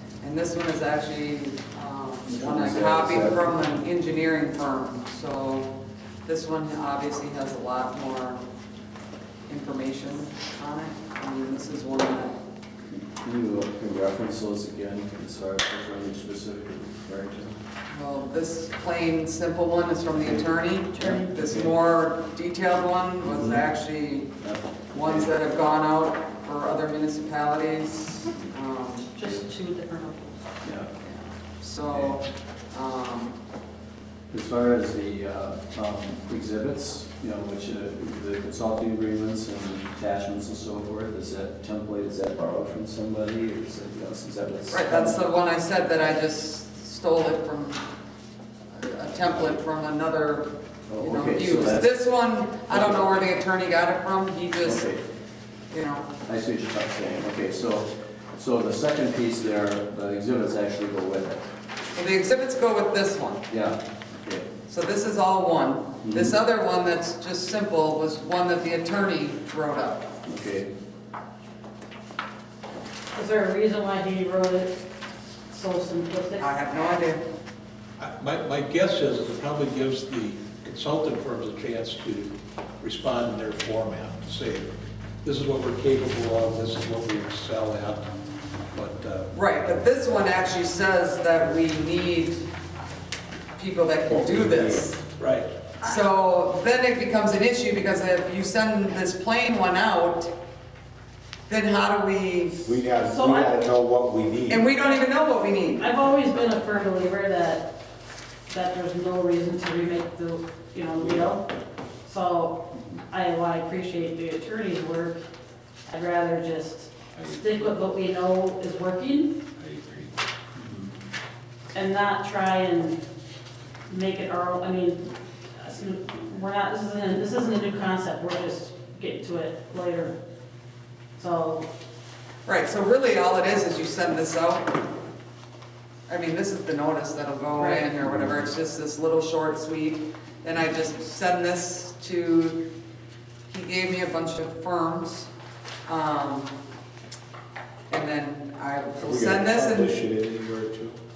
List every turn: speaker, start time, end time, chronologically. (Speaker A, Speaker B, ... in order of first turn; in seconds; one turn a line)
Speaker A: 0.2-5.7
Speaker B: 2.2-3.5
Speaker A: 6.2-8.4
Speaker A: 9.5-12.3
Speaker B: 12.9-17.6
Speaker A: 17.9-24.4
Speaker C: 20.9-21.3
Speaker B: 21.0-21.7
Speaker B: 23.2-23.7
Speaker B: 24.4-25.4
Speaker A: 24.9-29.1
Speaker C: 29.1-30.4
Speaker B: 30.6-30.9
Speaker A: 31.0-33.4
Speaker B: 34.3-45.2
Speaker A: 44.7-47.8
Speaker A: 48.7-54.9
Speaker B: 50.9-52.0
Speaker B: 52.7-53.3
Speaker B: 54.6-55.0
Speaker A: 55.7-56.1
Speaker B: 56.2-61.5
Speaker A: 61.9-63.4
Speaker B: 63.5-64.5
Speaker A: 64.7-70.0
Speaker B: 66.0-66.4
Speaker B: 70.2-70.7
Speaker C: 73.1-74.7
Speaker C: 75.5-76.5
Speaker A: 76.4-77.2
Speaker D: 78.0-84.7
Speaker D: 85.2-88.0
Speaker D: 88.7-89.3
Speaker A: 89.3-92.4
Speaker A: 93.6-95.0
Speaker E: 94.1-94.9
Speaker D: 95.2-95.5
Speaker A: 95.8-100.3
Speaker A: 101.5-102.6
Speaker E: 102.6-104.7
Speaker C: 103.0-103.5
Speaker A: 104.5-105.8
Speaker C: 105.8-107.7
Speaker C: 108.5-111.4
Speaker E: 111.0-111.3
Speaker C: 112.0-115.2
Speaker C: 115.8-119.3
Speaker E: 117.1-117.7
Speaker E: 119.5-120.1
Speaker B: 120.6-120.9
Speaker C: 121.7-123.0
Speaker C: 123.9-130.2
Speaker C: 131.2-131.7
Speaker A: 132.4-134.8
Speaker A: 136.1-142.6
Speaker C: 137.6-137.8
Speaker A: 143.5-145.3
Speaker A: 145.8-146.5
Speaker A: 147.9-149.9
Speaker E: 149.0-151.0